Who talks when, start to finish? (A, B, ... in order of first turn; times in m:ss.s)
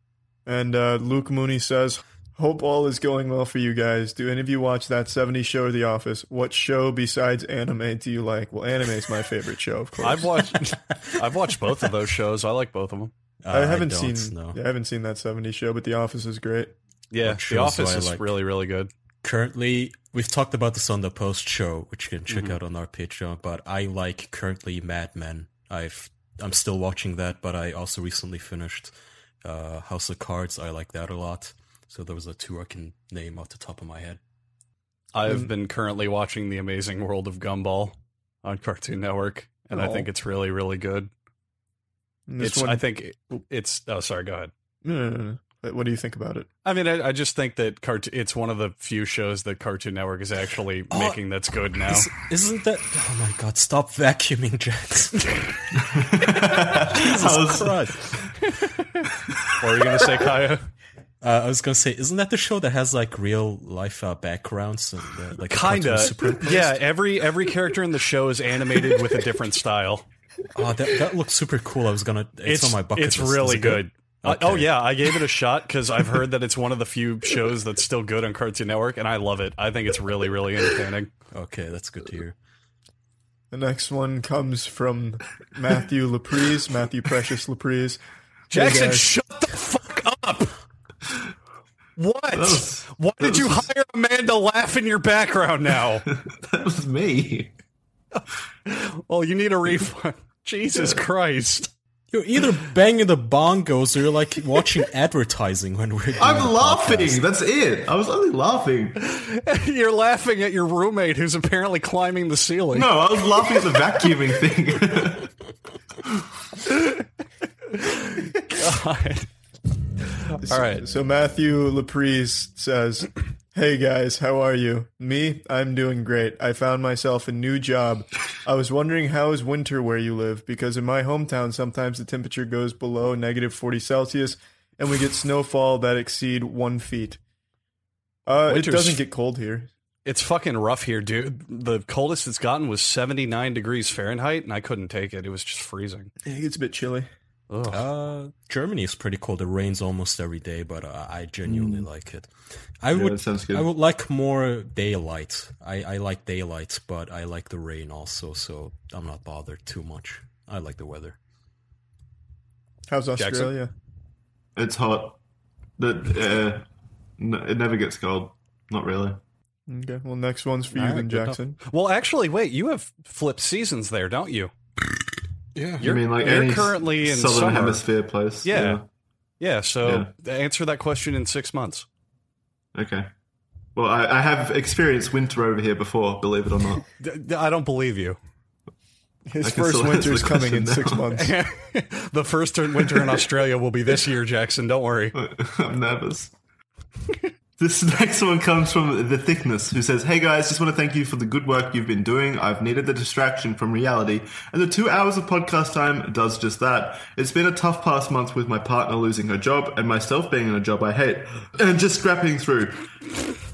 0:00.4-0:10.4 A
0:10.0-0:13.1 B
0:13.4-0:14.6 C
0:13.5-0:16.7 A
0:17.1-0:18.9 B
0:17.2-0:18.3 C
0:19.2-0:34.2 C
0:22.3-0:22.6 B
0:35.1-0:41.1 B
0:39.7-0:40.1 A
0:42.3-0:42.8 A
0:42.4-0:44.5 B
0:44.8-0:46.5 A
0:46.6-0:52.1 B
0:50.9-0:51.2 C
0:51.8-0:55.3 C
0:55.8-0:57.8 D
0:56.7-0:58.1 C
0:59.6-1:00.6 B
1:01.2-1:06.8 C
1:05.5-1:10.0 B
1:10.5-1:14.9 C
1:12.4-1:21.1 B
1:21.3-1:22.3 C
1:23.5-1:29.1 A
1:28.5-1:30.6 B
1:32.0-1:36.0 B
1:32.3-1:33.6 D
1:36.1-1:37.5 D
1:38.6-1:41.7 B
1:42.1-1:47.2 C
1:46.2-1:49.0 D
1:49.0-1:52.9 B
1:52.7-1:55.3 D
1:56.7-1:56.9 B
1:57.7-1:59.3 B
2:00.3-2:00.8 B
2:00.4-2:17.2 A
2:18.2-2:19.7 A
2:18.5-2:19.0 B
2:20.0-2:26.1 B
2:26.2-2:27.1 A
2:27.5-2:27.8 B
2:27.7-2:32.3 C
2:31.5-2:31.8 D
2:32.8-2:41.2 C
2:32.9-2:33.7 D
2:42.9-2:43.7 A
2:43.2-2:43.5 B
2:44.6-2:45.2 D
2:45.8-2:46.6 D
2:47.2-2:49.2 D
2:49.7-2:51.6 A
2:50.7-2:54.5 B
2:55.5-2:55.8 C
2:55.8-2:57.8 B
2:55.8-2:58.8 D
2:58.4-2:58.8 B
2:59.4-3:01.8 B
2:59.8-3:00.1 D
3:02.7-3:03.1 D
3:03.7-3:06.8 D
3:07.0-3:08.2 B
3:09.3-3:11.3 A
3:09.4-3:11.1 D
3:11.1-3:15.1 B
3:15.1-3:16.3 D
3:17.6-3:32.8 D